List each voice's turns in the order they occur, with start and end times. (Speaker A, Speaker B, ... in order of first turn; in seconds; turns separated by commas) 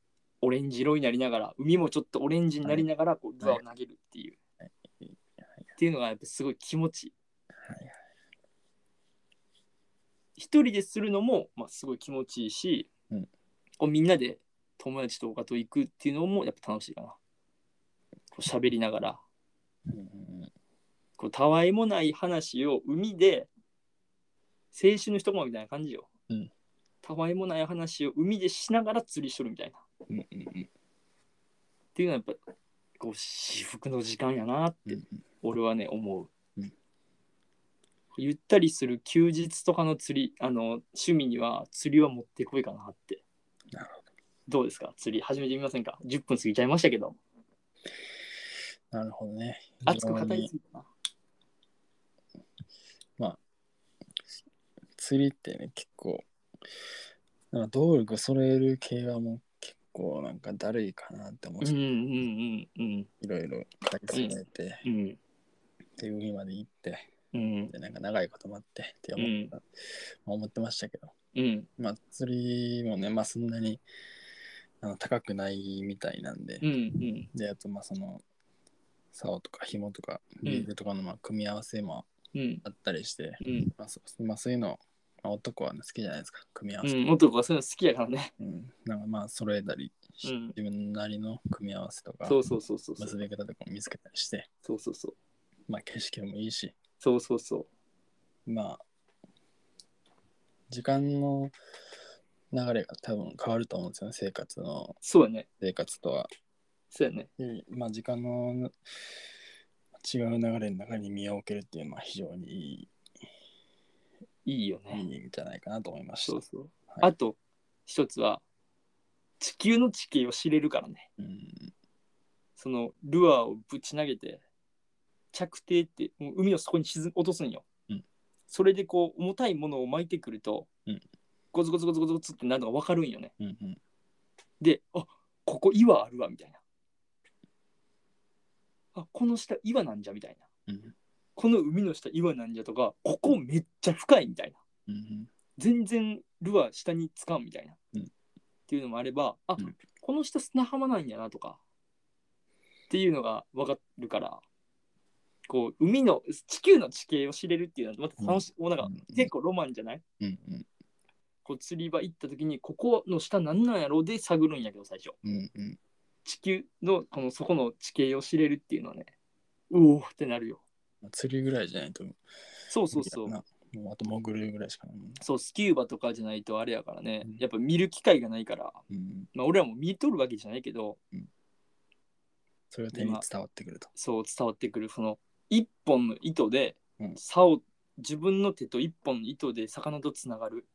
Speaker A: 0.4-4.4, Speaker B: 4.6-5.2, Speaker A: 5.8-7.1, Speaker B: 7.6-8.0, Speaker A: 10.4-12.9, Speaker A: 13.8-17.2, Speaker A: 18.3-19.2, Speaker B: 19.9-20.5, Speaker A: 21.2-23.5, Speaker A: 24.7-26.1, Speaker A: 27.0-29.8, Speaker B: 30.1-30.7, Speaker A: 31.9-32.4, Speaker A: 33.0-36.3, Speaker B: 34.9-35.2, Speaker A: 38.2-43.2, Speaker B: 43.7-44.0, Speaker A: 44.5-47.2, Speaker B: 48.9-50.5, Speaker A: 49.9-50.9, Speaker B: 55.0-56.3, Speaker B: 57.5-61.8, Speaker A: 61.6-63.1, Speaker B: 63.2-64.8, Speaker A: 64.1-65.2, Speaker B: 66.0-67.1, Speaker A: 67.3-67.7, Speaker B: 67.7-71.1, Speaker A: 69.2-69.5, Speaker A: 71.3-71.7, Speaker B: 71.8-73.8, Speaker B: 74.8-76.7, Speaker A: 76.6-77.3, Speaker B: 77.3-78.2, Speaker B: 79.1-82.1, Speaker A: 82.3-82.6, Speaker B: 82.6-87.0, Speaker A: 83.4-83.7, Speaker A: 86.8-88.3, Speaker B: 88.4-92.4, Speaker A: 90.2-90.6, Speaker A: 92.3-93.2, Speaker B: 93.0-94.5, Speaker A: 94.7-95.2, Speaker B: 95.7-96.8, Speaker A: 97.0-97.7, Speaker B: 98.5-98.8, Speaker B: 100.7-101.5, Speaker B: 102.5-105.0, Speaker A: 105.0-105.5, Speaker B: 105.6-106.3, Speaker A: 106.9-107.3, Speaker B: 107.4-108.8, Speaker B: 110.0-112.9, Speaker A: 114.5-115.0, Speaker B: 114.9-117.1, Speaker A: 116.2-118.4, Speaker A: 119.4-121.1, Speaker B: 121.2-121.7, Speaker A: 122.6-124.4, Speaker A: 125.3-127.7, Speaker A: 128.5-130.7, Speaker A: 131.5-133.3, Speaker B: 133.4-133.8, Speaker A: 134.6-136.6, Speaker A: 138.9-140.4, Speaker B: 140.7-140.9, Speaker A: 141.4-144.6, Speaker B: 144.9-145.3, Speaker A: 145.6-147.8, Speaker A: 148.7-151.6, Speaker A: 152.9-154.4, Speaker A: 155.5-160.0, Speaker B: 158.2-159.3, Speaker B: 160.2-160.7, Speaker A: 161.4-165.2, Speaker B: 165.2-165.8, Speaker A: 166.2-169.1, Speaker A: 169.7-170.6, Speaker B: 171.0-172.2, Speaker A: 172.7-173.3, Speaker B: 172.9-175.2, Speaker A: 175.2-178.8, Speaker B: 178.9-179.3, Speaker A: 179.3-181.0, Speaker B: 182.7-183.9, Speaker A: 182.9-183.2, Speaker A: 184.0-190.7